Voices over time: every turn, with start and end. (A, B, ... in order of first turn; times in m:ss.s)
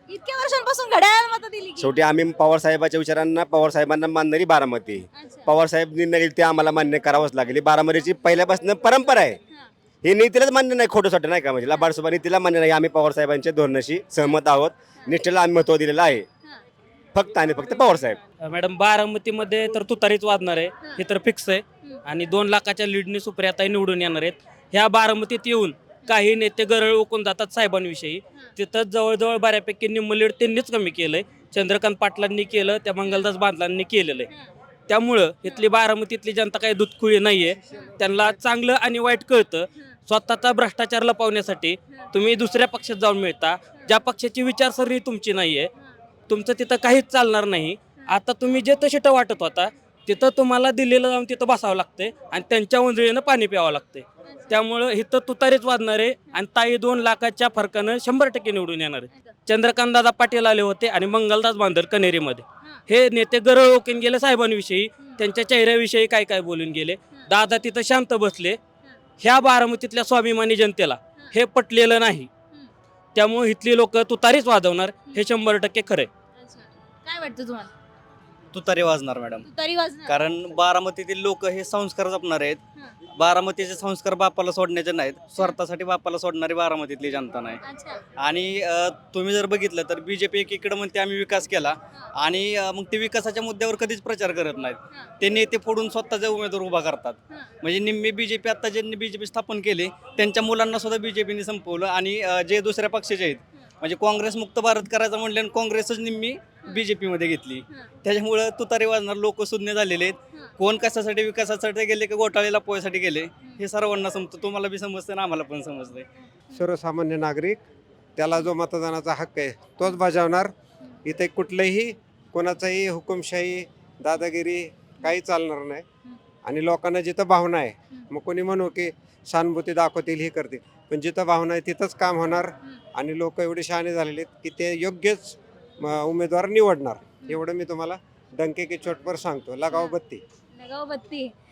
0:00.1-0:02.0 A
0:01.8-0:09.4 B
0:05.1-0:05.5 A
0:10.0-0:16.2 B
0:17.1-0:18.2 B
0:18.4-0:34.3 C
0:34.9-0:45.7 C
0:46.3-1:08.6 C
0:54.3-0:54.6 A
1:09.2-1:12.3 C
1:13.1-1:16.1 C
1:16.4-1:17.7 A
1:18.5-1:19.4 D
1:19.4-1:20.1 A
1:20.1-1:22.6 D
1:23.2-1:27.6 D
1:27.6-1:28.0 A
1:28.2-1:56.1 D
1:56.5-1:57.6 E
1:58.2-2:00.5 E
2:01.0-2:05.8 E
2:06.4-2:20.2 E
2:20.5-2:21.3 A